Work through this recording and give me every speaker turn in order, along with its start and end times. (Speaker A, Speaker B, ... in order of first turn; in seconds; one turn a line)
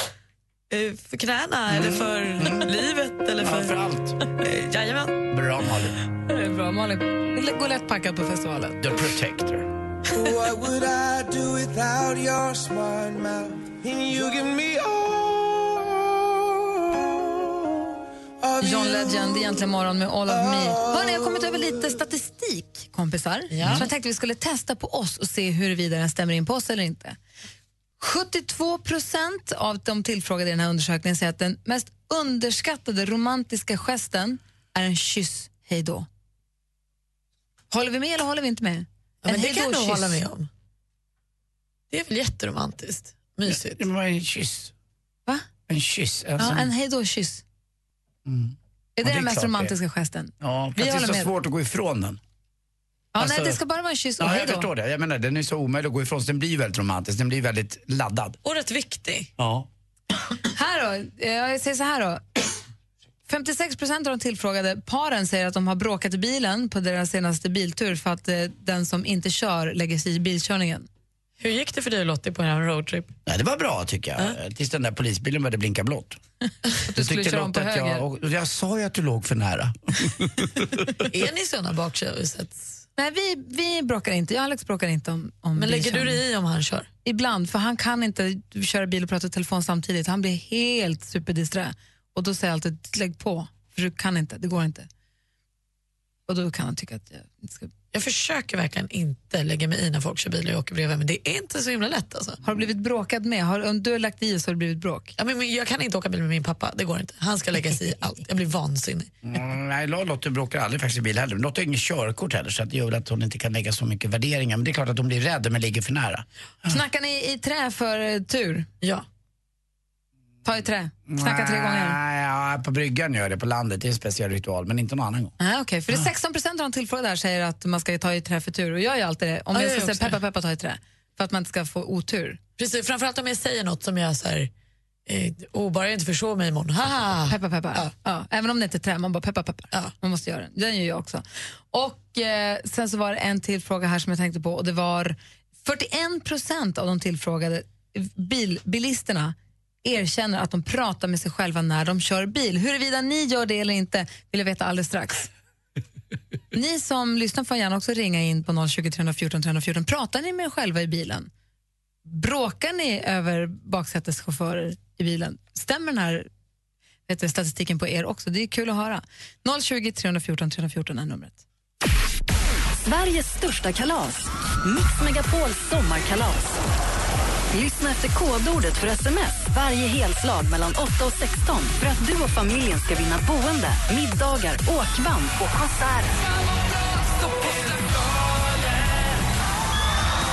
Speaker A: 0.7-3.8
Speaker B: 1.7-2.7
Speaker B: 3.4-4.2
Speaker A: 4.3-5.2
Speaker B: 5.3-6.0
Speaker C: 6.3-8.8
Speaker B: 8.8-9.7
Speaker D: 10.1-15.2
Speaker D: 18.4-19.6
Speaker C: 18.6-27.2
Speaker D: 20.3-21.2
Speaker A: 23.5-23.9
Speaker C: 28.0-36.1
Speaker C: 37.7-40.2
Speaker A: 39.2-40.5
Speaker A: 41.9-43.8
Speaker B: 43.5-44.7
Speaker B: 45.7-46.7
Speaker C: 46.4-47.4
Speaker B: 48.3-49.7
Speaker C: 49.0-51.3
Speaker B: 50.4-52.2
Speaker C: 53.1-54.7
Speaker B: 53.2-53.6
Speaker B: 54.2-58.4
Speaker A: 58.4-59.3
Speaker B: 59.4-59.7
Speaker C: 60.5-62.2
Speaker C: 63.3-70.9
Speaker A: 71.4-73.1
Speaker B: 73.3-76.2
Speaker C: 76.8-78.0
Speaker B: 76.9-81.2
Speaker A: 81.0-82.8
Speaker C: 83.0-86.2
Speaker A: 85.6-86.9
Speaker C: 87.0-94.9
Speaker C: 96.3-97.7
Speaker A: 97.9-102.4
Speaker C: 102.4-105.2
Speaker A: 105.2-109.1
Speaker B: 109.2-116.8
Speaker C: 116.7-118.7
Speaker C: 120.5-122.0
Speaker B: 121.1-125.3
Speaker C: 125.4-132.4
Speaker A: 129.5-130.2
Speaker A: 132.6-134.5
Speaker A: 135.1-137.9
Speaker C: 137.3-155.3
Speaker C: 156.5-161.3
Speaker C: 162.1-166.3
Speaker C: 167.1-171.4
Speaker E: 172.8-176.6
Speaker E: 177.5-186.2